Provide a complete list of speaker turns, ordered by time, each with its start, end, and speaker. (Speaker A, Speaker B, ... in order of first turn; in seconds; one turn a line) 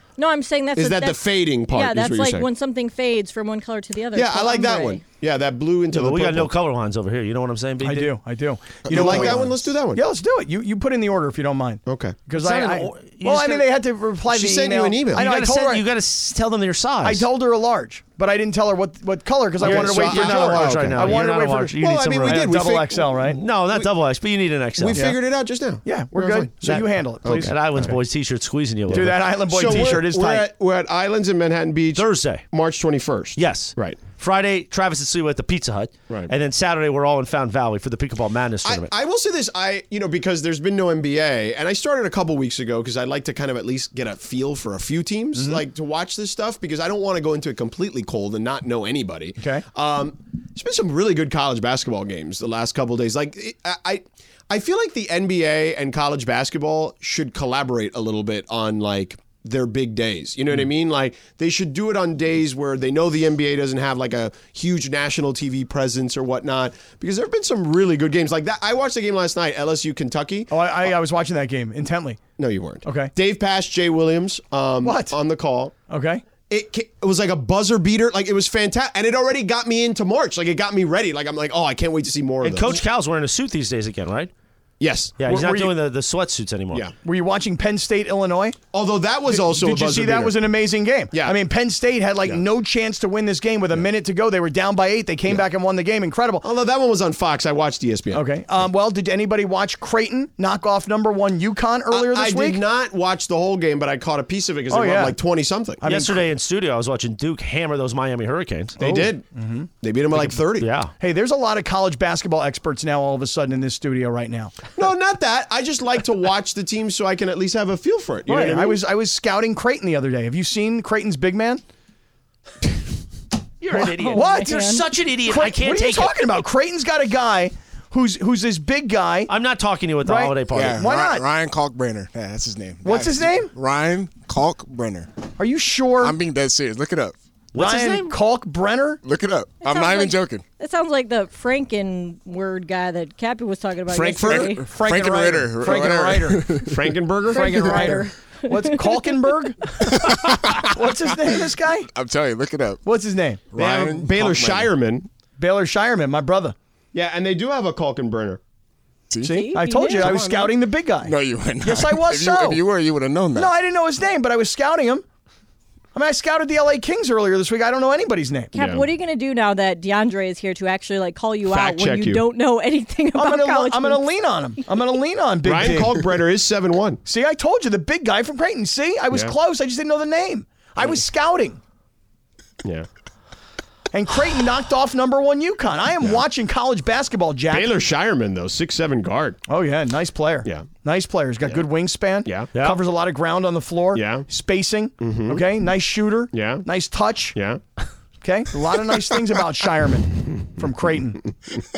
Speaker A: 0.2-5.0
Speaker B: 0.8-2.5
Speaker B: 4.1-6.5
Speaker C: 5.9-8.2
Speaker D: 7.8-15.8
Speaker B: 8.9-10.0
Speaker E: 8.9-9.1
Speaker B: 11.8-12.2
Speaker C: 12.4-13.7
Speaker B: 14.2-15.2
Speaker C: 15.1-17.3
Speaker D: 17.0-23.4
Speaker B: 19.6-23.9
Speaker C: 19.6-22.6
Speaker C: 23.4-25.0
Speaker B: 24.8-28.0
Speaker D: 24.9-25.2
Speaker D: 25.8-27.5
Speaker C: 27.3-30.0
Speaker D: 28.9-30.4
Speaker B: 28.9-34.0
Speaker C: 31.9-32.5
Speaker C: 33.4-38.9
Speaker B: 38.6-70.5
Speaker D: 45.4-45.6
Speaker D: 49.4-49.6
Speaker D: 70.5-72.2
Speaker B: 72.4-75.7
Speaker D: 72.8-73.1
Speaker D: 74.8-75.1
Speaker D: 75.9-76.2
Speaker B: 76.5-82.8
Speaker C: 82.4-84.3
Speaker B: 84.8-85.1
Speaker C: 85.2-86.8
Speaker D: 85.2-85.7
Speaker D: 87.0-88.6
Speaker B: 88.7-90.4
Speaker D: 89.3-96.4
Speaker B: 91.1-91.4
Speaker B: 96.4-98.2
Speaker D: 98.1-102.6
Speaker B: 101.9-105.8
Speaker D: 104.7-105.2
Speaker D: 105.8-106.2
Speaker C: 105.8-108.8
Speaker B: 108.8-109.2
Speaker D: 108.8-110.4
Speaker B: 109.8-110.7
Speaker C: 110.6-110.9
Speaker D: 111.0-114.5
Speaker B: 114.7-118.8
Speaker D: 118.3-121.6
Speaker C: 123.6-126.4
Speaker D: 123.8-124.6
Speaker A: 123.9-124.8
Speaker D: 125.3-129.3
Speaker C: 129.3-130.8
Speaker D: 130.0-131.2
Speaker E: 130.5-135.1
Speaker D: 132.8-133.5
Speaker D: 135.4-136.1
Speaker E: 136.0-137.1
Speaker C: 137.5-138.1
Speaker D: 137.5-139.0
Speaker E: 139.0-140.4
Speaker A: 139.6-144.7
Speaker E: 143.9-147.0
Speaker D: 144.1-146.7
Speaker B: 146.7-148.0
Speaker A: 147.2-149.9
Speaker D: 147.3-149.6
Speaker E: 149.9-151.3
Speaker D: 150.7-151.9
Speaker E: 151.9-152.8
Speaker D: 152.8-153.4
Speaker E: 153.5-154.7
Speaker B: 153.6-155.1
Speaker D: 155.4-156.5
Speaker B: 156.9-158.4
Speaker E: 159.1-163.5
Speaker A: 159.2-160.2
Speaker D: 159.2-162.6
Speaker D: 163.3-165.0
Speaker D: 165.9-168.5
Speaker A: 168.5-174.0
Speaker B: 168.5-168.9
Speaker B: 171.4-172.2
Speaker D: 173.2-176.1
Speaker B: 175.4-177.0
Speaker D: 177.0-181.6
Speaker D: 183.9-187.7
Speaker B: 187.5-189.4
Speaker D: 189.5-197.3
Speaker B: 192.2-192.5
Speaker B: 193.9-194.3
Speaker B: 195.0-195.4
Speaker B: 196.3-196.7
Speaker B: 197.3-197.6
Speaker D: 198.2-201.2